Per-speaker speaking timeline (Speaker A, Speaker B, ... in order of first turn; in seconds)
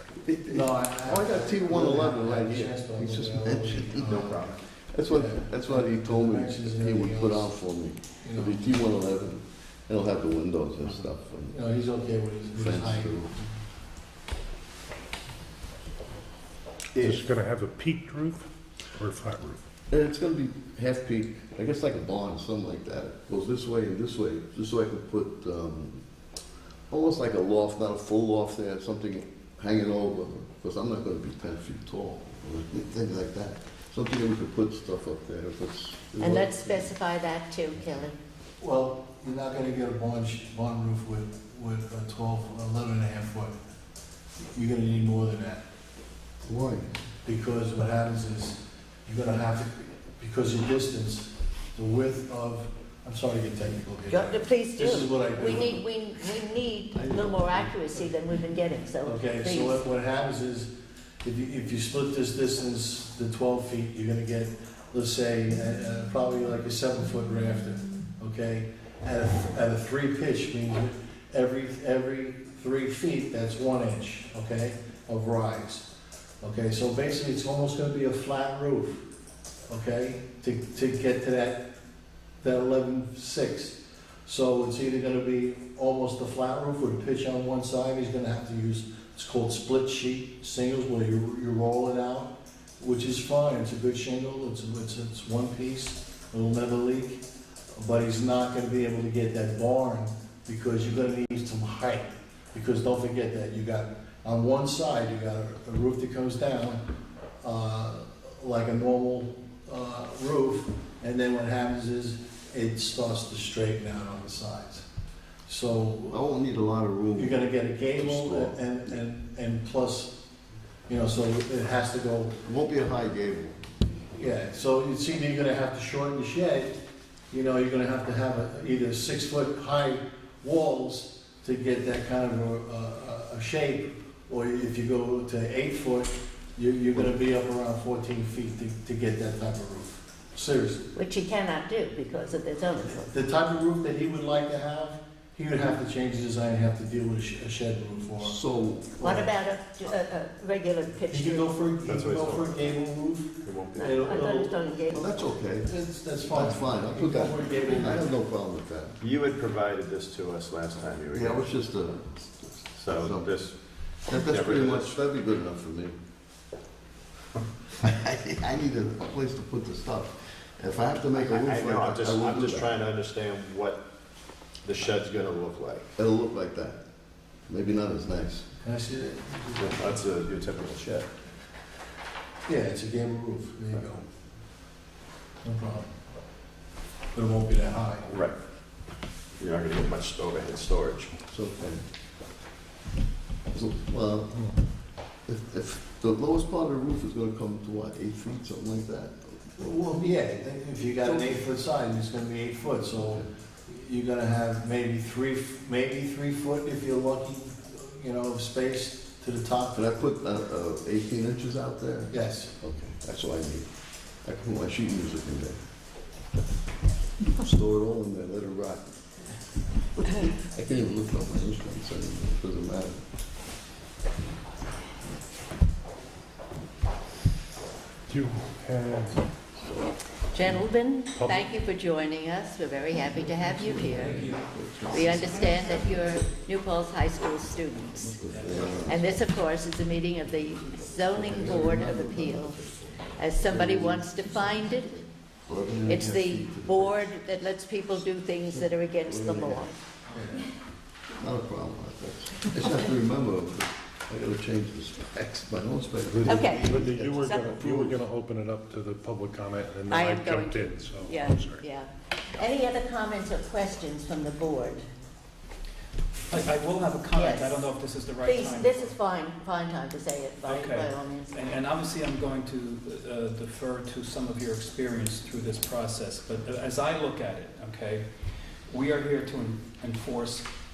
Speaker A: 0.2-11.6, 12.5-13.3, 19.9-26.0, 26.9-36.9, 46.4-46.9, 56.9-57.7, 116.1-118.9, 122.4-124.0, 148.2-149.1, 154.9-159.0, 161.1-163.3, 164.1-165.9, 167.8-172.8, 175.9-176.8, 177.5-178.5, 191.3-191.8, 193.5-194.4, 195.3-199.2, 201.0-201.3, 209.7-213.7, 214.2-215.6, 217.3-218.9, 220.4-223.0, 233.8-235.5, 238.2-239.2, 241.0-244.6, 245.5-247.1, 249.0-249.6, 251.2-258.0
Speaker B: 0.5-4.5, 5.1-7.5, 8.2-8.7, 11.5-13.5, 38.6-43.5, 44.4-45.6, 47.2-55.8, 59.0-75.9, 76.4-79.1, 79.7-81.7, 82.4-97.2, 97.7-106.9, 107.4-114.8, 115.5-116.2, 117.2-120.2, 120.9-122.4, 124.1-126.8, 127.3-140.8, 143.0-148.4, 149.0-149.3, 151.1-154.6, 155.6-158.1, 178.6-180.0, 182.4-184.1, 185.4-185.9, 187.1-188.1, 199.6-209.9, 212.1-212.5, 250.1-250.4
Speaker C: 4.2-4.5, 151.8-152.7, 153.4-154.3, 159.0-161.6, 162.7-163.6, 164.1-164.9, 171.1-173.8, 174.6-175.9, 179.6-181.1, 188.1-188.3, 189.4-191.1
Speaker D: 16.9-19.6, 228.1-229.3, 231.2-231.4, 256.1-261.6
Speaker E: 36.2-38.2, 54.1-59.8, 140.9-143.1, 149.0-151.5, 153.8-155.1, 230.3-234.2, 234.9-242.6, 243.1-245.0, 245.8-249.7, 256.2-257.5, 259.9-264.8, 267.1-267.5, 268.2-271.3
Speaker F: 233.4-235.9, 237.9-239.1, 266.3-268.9, 270.4-278.1, 278.7-280.5